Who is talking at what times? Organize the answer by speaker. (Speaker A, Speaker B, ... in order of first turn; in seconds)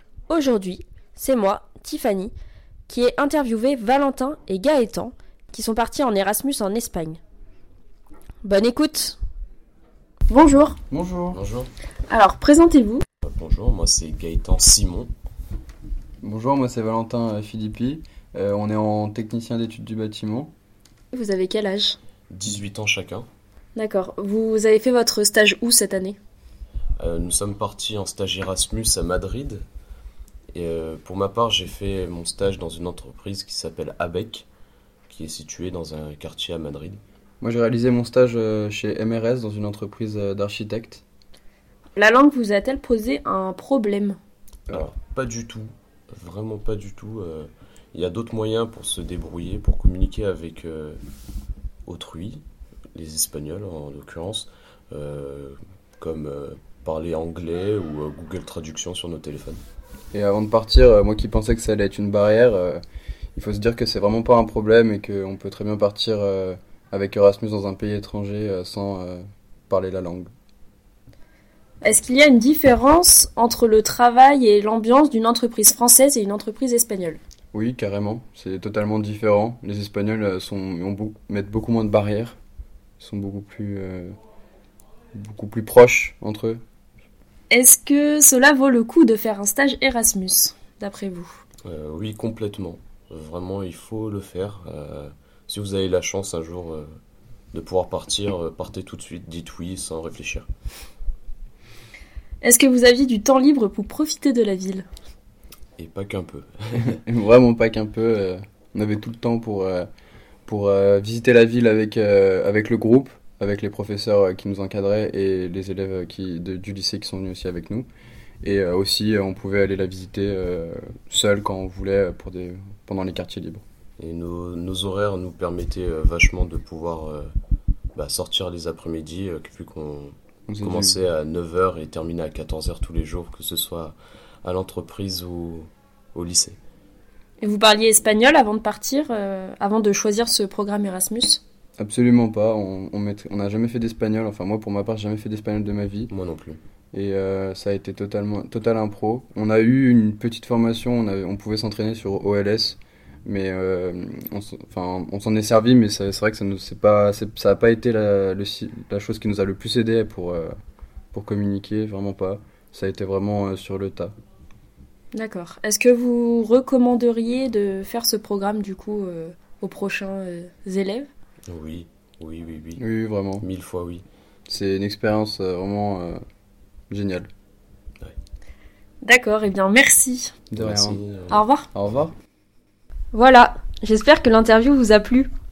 Speaker A: 0.3-2.3, 2.9-7.2, 8.4-9.2, 10.3-10.8, 12.1-13.0, 21.1-22.0, 23.8-26.2, 42.0-44.2, 71.8-77.2, 87.5-91.4, 102.4-104.8, 137.4-141.4, 165.1-171.1, 179.0-180.3, 181.3-181.7, 183.1-185.3
Speaker B: 10.9-11.4, 16.2-20.5, 37.4-41.0, 60.1-62.8, 63.4-70.3, 77.5-82.4, 83.0-84.1, 85.1-86.6, 106.8-109.9, 110.5-117.9, 118.4-123.6, 130.5-131.0, 141.8-146.1, 146.9-160.5, 161.1-164.1, 172.8-173.4, 174.5-176.2, 176.9-177.3, 180.5-181.0, 181.7-182.1
Speaker C: 11.3-11.7, 13.2-15.1, 22.3-23.3, 27.0-29.6, 30.5-34.5, 35.1-37.0, 44.7-51.0, 51.9-52.4, 52.9-59.6, 91.6-96.9, 97.5-100.5, 105.8-107.0, 124.0-127.3, 128.0-136.6, 146.1-146.6, 171.5-172.8, 173.4-174.0, 180.6-181.4